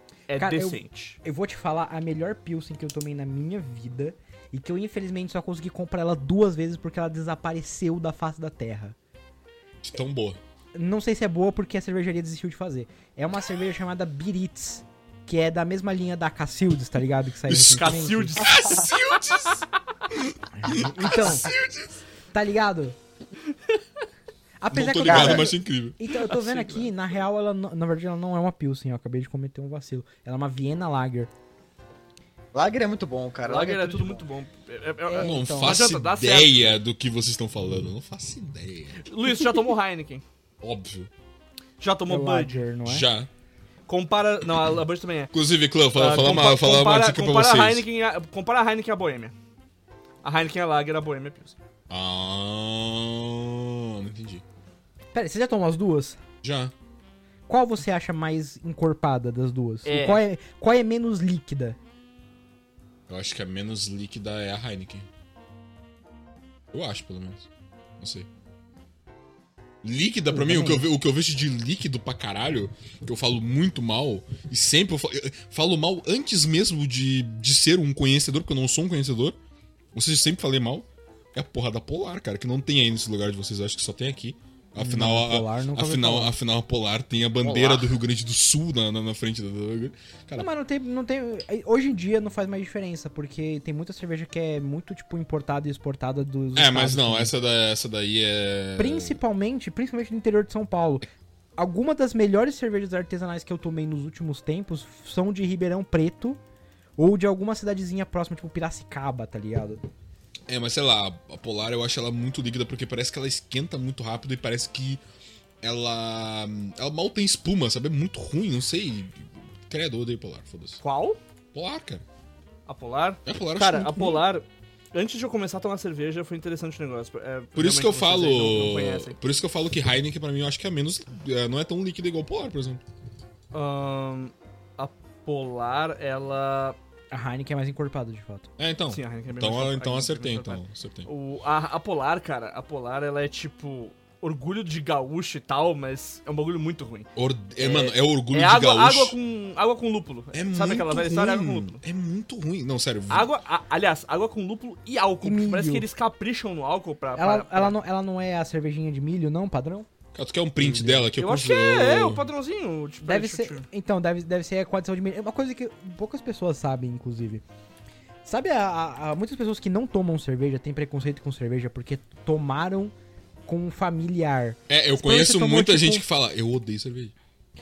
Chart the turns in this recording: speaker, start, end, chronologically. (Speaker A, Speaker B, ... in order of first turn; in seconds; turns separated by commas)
Speaker A: 0.3-1.2, Speaker B: 0.3-8.9, Speaker C: 9.8-10.4, Speaker B: 10.7-18.5, Speaker C: 17.5-22.0, Speaker A: 17.6-19.6, Speaker B: 20.5-21.5, Speaker D: 21.0-21.4, Speaker B: 22.3-23.0, Speaker B: 24.6-31.3, Speaker C: 24.7-26.0, Speaker D: 25.0-25.5, Speaker A: 26.2-26.9, Speaker D: 32.5-34.2, Speaker A: 33.4-36.7, Speaker B: 35.1-35.8, Speaker C: 35.1-39.0, Speaker A: 39.0-40.2, Speaker C: 40.6-41.1, Speaker A: 41.8-42.6, Speaker B: 42.1-43.0, Speaker C: 42.9-43.3, Speaker A: 43.9-45.3, Speaker C: 45.3-47.8, Speaker A: 45.9-49.3, Speaker A: 50.2-51.5, Speaker C: 51.9-54.4, Speaker B: 55.1-56.2, Speaker C: 56.4-56.7, Speaker B: 57.5-61.8, Speaker A: 59.8-60.2, Speaker C: 63.1-65.0, Speaker C: 66.7-67.5, Speaker C: 68.0-68.3, Speaker C: 69.8-79.4, Speaker B: 70.3-70.8, Speaker C: 79.9-90.5, Speaker B: 84.8-86.3, Speaker D: 87.4-88.0, Speaker B: 90.3-97.3, Speaker C: 96.5-99.2, Speaker B: 98.8-101.0, Speaker B: 101.6-106.4, Speaker B: 107.0-109.8, Speaker C: 110.5-115.0, Speaker C: 115.6-120.8, Speaker A: 120.8-121.2, Speaker C: 121.5-122.0, Speaker A: 122.7-129.2, Speaker C: 123.2-124.2, Speaker C: 127.5-132.8, Speaker A: 133.5-136.8, Speaker B: 137.1-138.5, Speaker C: 138.6-141.1, Speaker A: 138.9-147.1, Speaker C: 147.2-149.2, Speaker A: 147.6-151.8, Speaker C: 150.3-153.3, Speaker A: 153.1-157.7, Speaker B: 155.2-155.8, Speaker B: 157.2-159.9, Speaker C: 160.1-162.3, Speaker B: 160.6-161.1, Speaker A: 161.2-163.6, Speaker B: 163.0-167.4, Speaker B: 168.2-172.9, Speaker B: 173.4-176.1, Speaker C: 174.7-177.1